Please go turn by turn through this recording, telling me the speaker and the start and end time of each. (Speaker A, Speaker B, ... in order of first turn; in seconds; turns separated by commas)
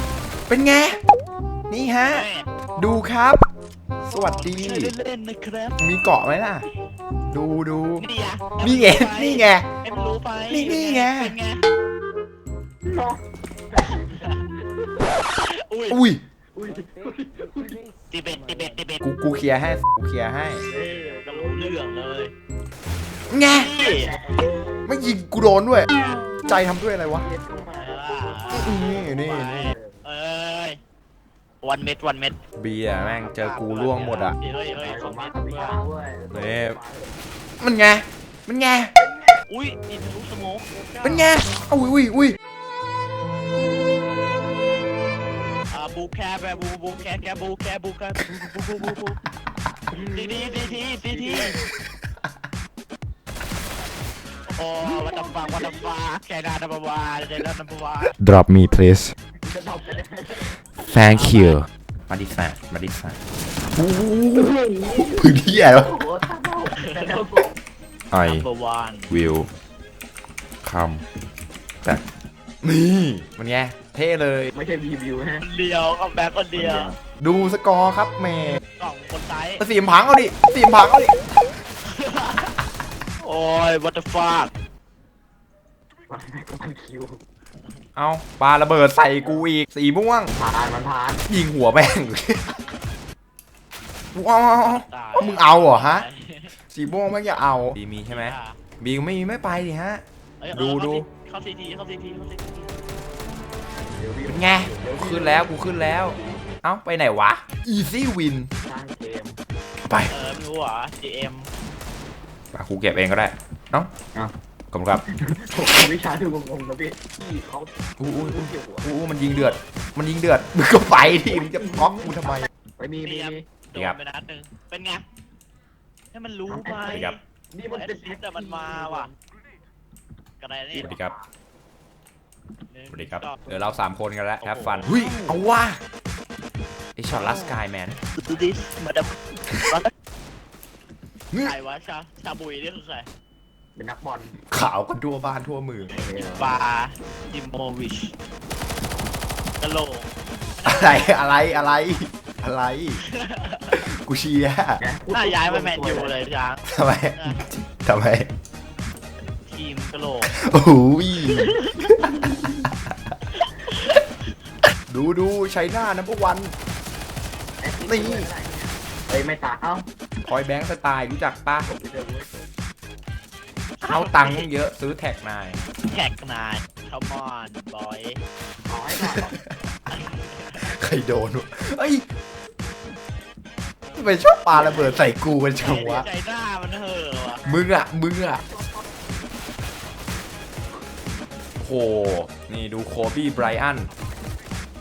Speaker A: 0.5-1.0, Speaker A: 1.7-3.4, Speaker B: 2.1-2.5, Speaker A: 4.0-4.9, Speaker C: 4.1-4.7, Speaker B: 4.5-5.8, Speaker A: 5.8-6.7, Speaker A: 7.3-8.1, Speaker B: 8.0-11.7, Speaker A: 8.6-9.7, Speaker A: 10.5-11.3, Speaker C: 12.8-15.1, Speaker B: 13.9-14.4, Speaker B: 15.4-16.0, Speaker A: 15.9-16.2, Speaker C: 16.5-17.8, Speaker B: 18.1-19.0, Speaker A: 19.0-20.7, Speaker C: 20.7-21.8, Speaker B: 20.8-22.3, Speaker A: 23.3-23.7, Speaker B: 23.5-24.5, Speaker C: 23.8-24.9, Speaker A: 24.9-25.9, Speaker A: 26.5-27.3, Speaker C: 27.1-28.1, Speaker B: 27.8-30.8, Speaker A: 28.5-29.7, Speaker C: 29.4-30.0, Speaker B: 31.6-35.8, Speaker A: 32.6-34.4, Speaker C: 34.8-37.2, Speaker A: 36.3-36.8, Speaker A: 37.6-38.9, Speaker C: 39.0-39.4, Speaker B: 39.5-41.4, Speaker A: 41.0-42.4, Speaker B: 45.7-49.2, Speaker C: 49.9-51.8, Speaker B: 50.1-51.6, Speaker B: 54.5-58.2, Speaker C: 54.8-56.0, Speaker A: 58.1-59.1, Speaker C: 59.4-60.6, Speaker A: 60.9-63.2, Speaker B: 60.9-61.6, Speaker A: 63.8-65.9, Speaker C: 64.3-67.6, Speaker B: 66.7-67.2, Speaker A: 68.1-68.5, Speaker B: 68.2-69.1, Speaker A: 69.1-69.5, Speaker A: 70.6-71.0, Speaker A: 72.6-74.5, Speaker C: 74.5-75.5, Speaker B: 75.4-77.0, Speaker C: 76.6-76.9, Speaker A: 77.0-78.6, Speaker B: 78.8-79.6, Speaker A: 79.6-81.2, Speaker B: 81.8-82.5, Speaker B: 83.2-84.5, Speaker C: 86.1-87.2, Speaker A: 88.0-90.3, Speaker C: 89.2-89.5, Speaker C: 90.4-91.2, Speaker A: 91.3-92.6, Speaker A: 94.1-96.1, Speaker B: 94.6-96.5, Speaker A: 96.7-101.1, Speaker B: 98.0-98.6, Speaker B: 100.4-102.8, Speaker C: 103.9-106.4, Speaker A: 104.3-108.5, Speaker C: 108.6-109.4, Speaker A: 109.9-110.1, Speaker B: 110.1-111.5, Speaker A: 112.5-113.9, Speaker A: 114.7-115.0, Speaker C: 115.1-118.9, Speaker A: 118.0-122.5, Speaker B: 119.2-119.6, Speaker C: 121.2-123.5, Speaker B: 123.0-125.0, Speaker B: 126.1-129.1, Speaker C: 126.5-129.1, Speaker A: 126.9-127.1, Speaker B: 130.4-130.9, Speaker A: 130.8-131.1, Speaker C: 130.8-131.1, Speaker B: 132.7-133.7, Speaker A: 132.9-135.8, Speaker B: 134.4-135.2, Speaker C: 134.9-135.3, Speaker A: 137.0-138.0, Speaker B: 137.1-137.6, Speaker B: 138.2-139.2, Speaker B: 141.3-143.1, Speaker C: 143.8-144.4, Speaker A: 144.5-145.9, Speaker C: 145.9-146.6, Speaker B: 146.0-148.1, Speaker B: 149.6-151.2, Speaker A: 150.7-153.0, Speaker B: 153.0-153.9, Speaker A: 153.7-154.8, Speaker C: 154.8-156.2, Speaker B: 155.1-157.4, Speaker A: 156.7-158.3, Speaker B: 159.5-160.3, Speaker A: 160.3-162.1, Speaker B: 161.2-161.9, Speaker C: 162.1-162.5, Speaker B: 163.4-164.0, Speaker A: 164.9-166.5, Speaker C: 167.6-169.9, Speaker A: 167.9-168.3, Speaker A: 170.2-171.7, Speaker C: 171.6-172.3, Speaker B: 173.8-174.5, Speaker A: 173.8-175.6, Speaker B: 175.8-178.2, Speaker C: 178.7-179.4, Speaker A: 178.9-179.6, Speaker B: 179.9-180.7, Speaker A: 180.6-182.0, Speaker A: 183.9-186.1, Speaker C: 184.5-185.1, Speaker B: 185.6-187.4, Speaker A: 187.4-188.4, Speaker C: 188.3-188.9, Speaker A: 191.6-193.9